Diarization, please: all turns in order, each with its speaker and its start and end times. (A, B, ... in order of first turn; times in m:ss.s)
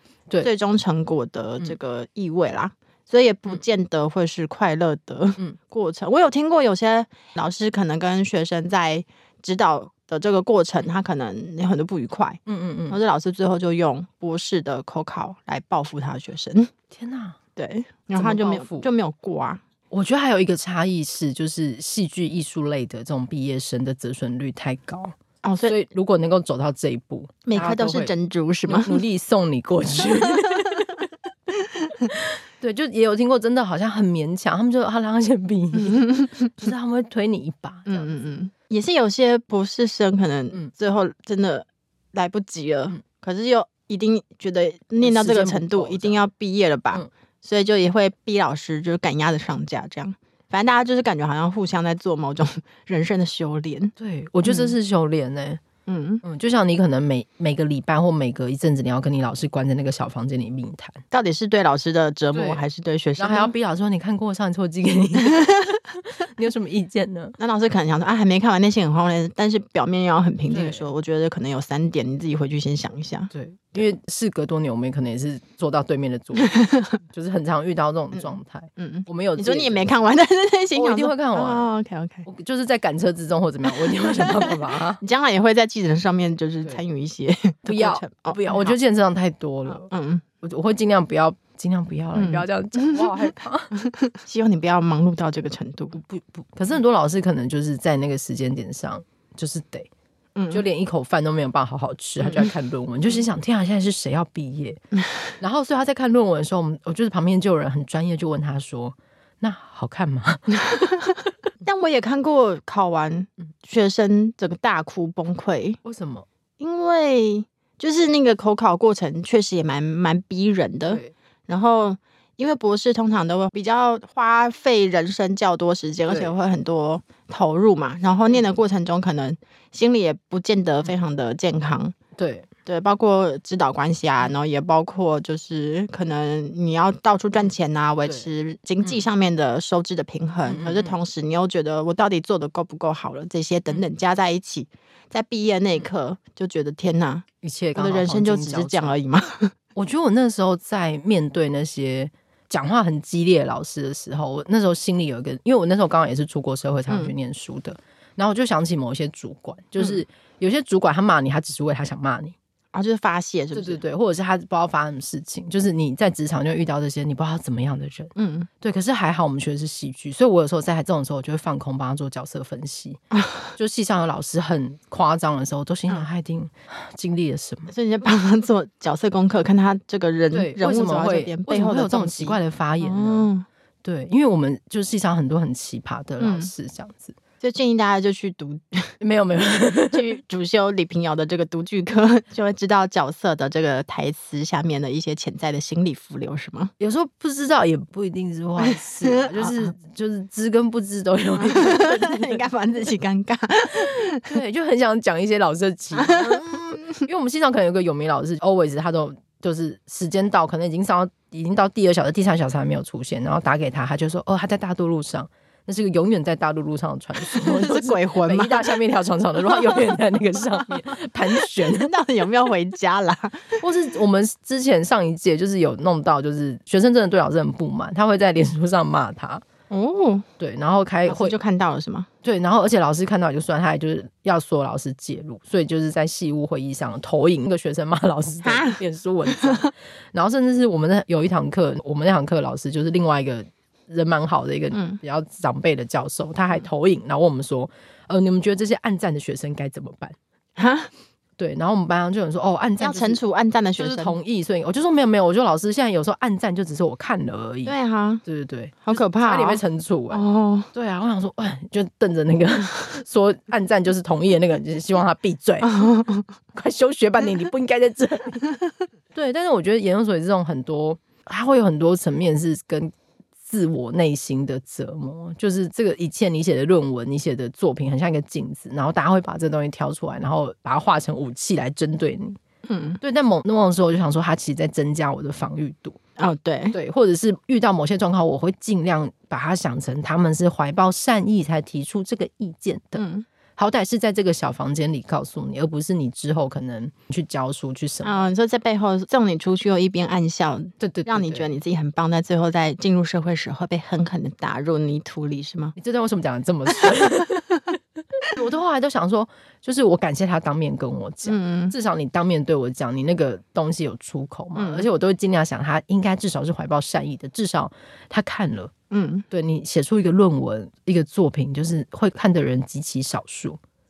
0:00.4-0:16.7 A
0:12.4-0:13.0 B
0:16.9-0:17.4 B
0:17.6-0:19.6 A
0:18.1-0:18.9 B
0:19.9-0:25.1 B
0:25.4-0:25.8 A
0:25.6-0:28.1 B
0:27.4-0:29.0 A
0:28.7-0:31.0 B
0:30.3-0:30.9 A
0:31.6-0:32.1 A
0:32.1-0:38.1 B
0:35.9-0:36.5 A
0:37.9-0:53.9 A
0:45.0-0:46.2 B
0:54.0-0:55.6 B
0:54.4-0:54.7 A
0:55.8-0:56.2 A
0:56.2-1:01.0 B
1:01.1-1:03.5 A
1:02.3-1:02.6 B
1:03.2-1:07.4 B
1:07.4-1:13.3 A
1:10.5-1:10.8 B
1:13.3-1:16.5 B
1:16.4-1:17.0 A
1:17.0-1:19.9 B
1:18.1-1:22.2 A
1:20.7-1:21.7 B
1:22.2-1:25.0 B
1:23.8-1:28.7 A
1:27.6-1:29.9 B
1:29.8-1:30.2 A
1:30.4-1:33.7 B
1:32.1-1:33.1 A
1:33.7-1:36.0 A
1:35.9-1:39.9 B
1:40.4-1:40.6 A
1:40.5-1:44.8 B
1:42.2-1:42.5 A
1:45.4-1:50.6 B
1:50.6-1:51.1 A
1:51.6-1:55.8 A
1:55.8-1:56.3 B
1:56.6-2:11.9 A
2:06.1-2:06.3 B
2:12.2-2:12.5 B
2:12.6-2:27.2 A
2:20.5-2:20.9 B
2:27.4-2:28.9 B
2:27.8-2:29.5 A
2:29.8-2:42.3 B
2:42.7-2:43.8 A
2:43.5-2:53.0 B
2:48.2-2:48.5 A
2:53.5-2:57.7 B
2:57.7-3:03.4 A
3:00.3-3:03.3 B
3:03.8-3:07.2 B
3:06.2-3:06.5 A
3:07.4-3:08.9 A
3:09.0-3:10.2 B
3:09.8-3:16.7 A
3:16.8-3:22.4 B
3:18.6-3:19.7 A
3:21.4-3:24.3 A
3:24.2-3:41.9 B
3:25.9-3:27.0 A
3:37.2-3:38.7 A
3:39.5-3:39.8 A
3:41.4-3:43.6 A
3:43.6-3:49.4 B
3:49.7-3:50.3 A
3:50.4-3:51.4 B
3:51.1-3:52.1 A
3:52.2-4:10.2 B
3:58.4-3:59.7 A
4:04.7-4:05.0 A
4:10.6-4:10.9 A
4:11.4-4:13.2 B
4:12.8-4:14.2 A
4:13.8-4:25.8 B
4:17.6-4:18.2 A
4:18.8-4:20.7 A
4:25.6-4:26.2 A
4:26.5-4:28.4 B
4:29.1-4:32.9 B
4:33.4-4:42.4 B
4:42.6-4:43.0 A
4:43.0-4:46.0 B
4:46.2-4:46.8 A
4:46.7-4:53.0 B
4:53.0-4:53.2 A
4:53.6-4:58.2 B
4:58.0-5:05.8 A
5:00.8-5:01.5 B
5:05.8-5:07.4 B
5:08.3-5:18.7 B
5:11.2-5:11.7 A
5:14.6-5:14.8 A
5:18.9-5:19.2 A
5:19.3-5:23.6 B